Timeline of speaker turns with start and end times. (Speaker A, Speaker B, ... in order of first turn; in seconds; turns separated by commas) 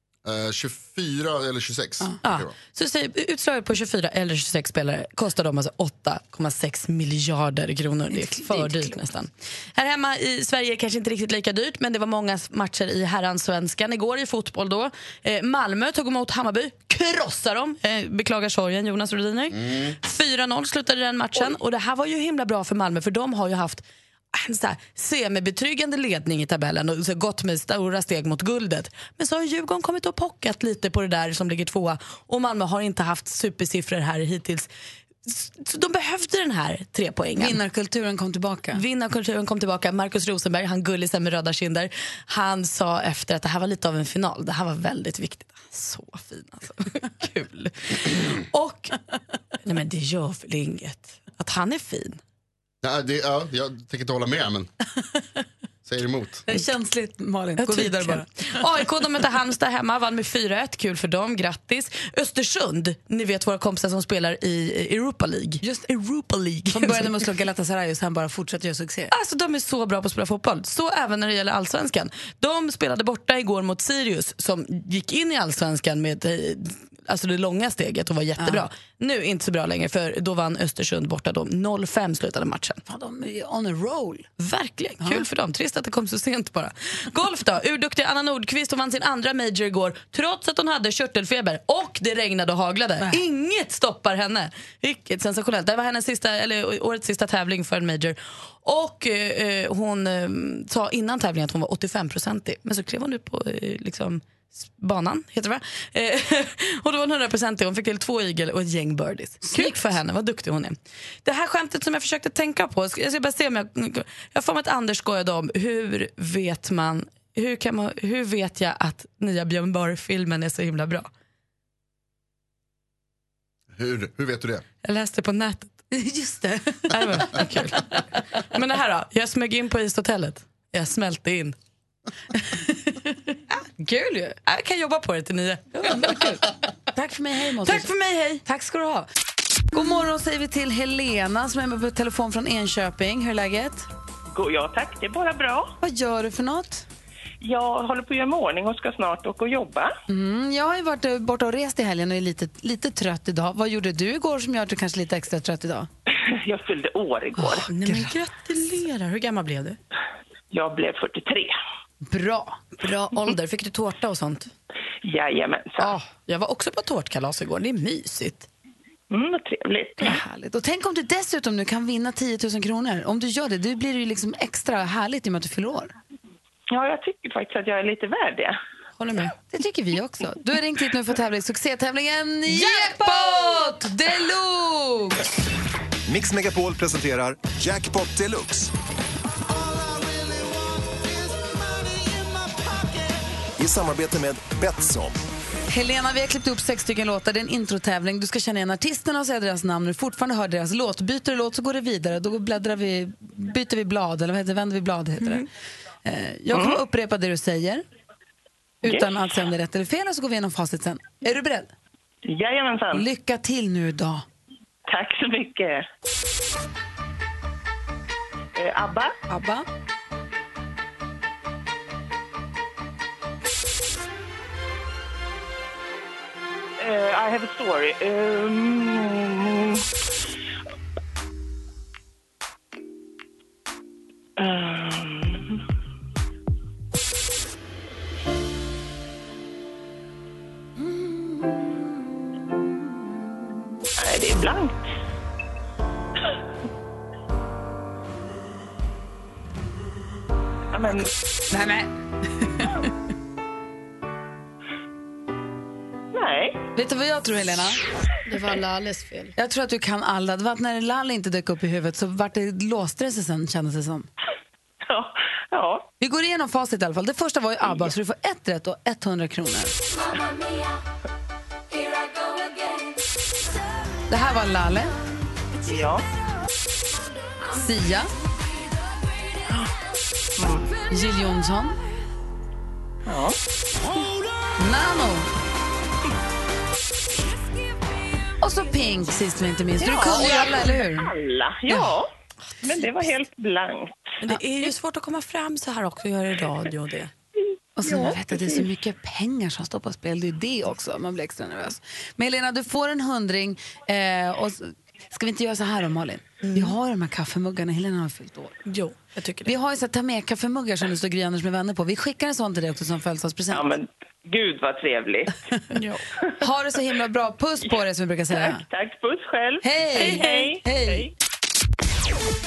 Speaker A: 0.2-2.5, Speaker B: 2.2-34.7, Speaker C: 8.1-8.9, Speaker A: 19.5-19.9, Speaker B: 35.2-37.6, Speaker C: 37.4-38.8, Speaker B: 38.7-49.0, Speaker B: 49.6-52.2, Speaker A: 52.8-54.7, Speaker A: 55.8-56.4, Speaker C: 56.5-58.6, Speaker B: 57.6-67.2, Speaker C: 66.7-69.1, Speaker B: 69.1-82.8, Speaker C: 78.4-78.6, Speaker C: 82.8-84.3, Speaker B: 84.4-121.1, Speaker C: 109.4-109.8, Speaker A: 123.7-124.6, Speaker B: 124.8-125.8, Speaker C: 125.9-127.5, Speaker B: 126.9-131.6, Speaker C: 132.5-132.9, Speaker C: 133.8-134.4, Speaker B: 134.4-136.3, Speaker C: 135.7-137.9, Speaker B: 137.6-138.4, Speaker C: 138.4-139.1, Speaker C: 139.7-143.8, Speaker D: 144.3-145.8, Speaker C: 145.8-146.8, Speaker D: 147.4-149.9, Speaker C: 150.1-155.9, Speaker D: 156.1-157.7, Speaker C: 157.4-158.1, Speaker B: 157.7-159.8, Speaker D: 160.5-161.5, Speaker C: 162.1-162.7, Speaker B: 162.8-164.5, Speaker D: 165.0-166.0, Speaker B: 165.8-168.5, Speaker D: 169.1-170.2, Speaker C: 170.0-175.9, Speaker D: 176.7-178.6, Speaker B: 179.0-179.3, Speaker C: 179.4-185.2, Speaker E: 186.1-188.7, Speaker E: 189.4-195.2, Speaker C: 195.7-205.4, Speaker C: 206.0-207.8, Speaker D: 206.5-206.8, Speaker C: 208.8-211.7, Speaker D: 212.2-213.1, Speaker C: 212.9-214.2, Speaker D: 214.9-215.8, Speaker D: 218.5-219.1, Speaker C: 219.3-219.7, Speaker D: 226.8-229.8, Speaker D: 234.4-235.6, Speaker D: 244.0-244.8, Speaker D: 250.7-251.1, Speaker C: 251.5-252.9, Speaker D: 256.1-256.6, Speaker C: 256.8-257.8, Speaker B: 258.3-259.3, Speaker C: 259.4-264.1, Speaker D: 264.8-265.9, Speaker C: 266.0-269.8, Speaker C: 274.1-274.9, Speaker D: 275.6-276.0, Speaker C: 277.5-278.1, Speaker D: 280.4-280.7, Speaker C: 280.9-281.8, Speaker D: 283.1-283.4, Speaker C: 284.6-285.3, Speaker C: 288.4-291.1, Speaker D: 289.8-292.1, Speaker C: 291.7-292.0, Speaker D: 292.6-294.1, Speaker B: 294.2-297.1, Speaker C: 297.8-308.6, Speaker D: 297.9-298.2, Speaker B: 306.4-306.7, Speaker B: 308.6-309.5, Speaker C: 309.4-313.7, Speaker D: 313.5-315.5, Speaker B: 315.7-316.0, Speaker C: 316.4-318.6, Speaker D: 318.3-321.1, Speaker C: 319.6-321.1, Speaker B: 319.9-320.5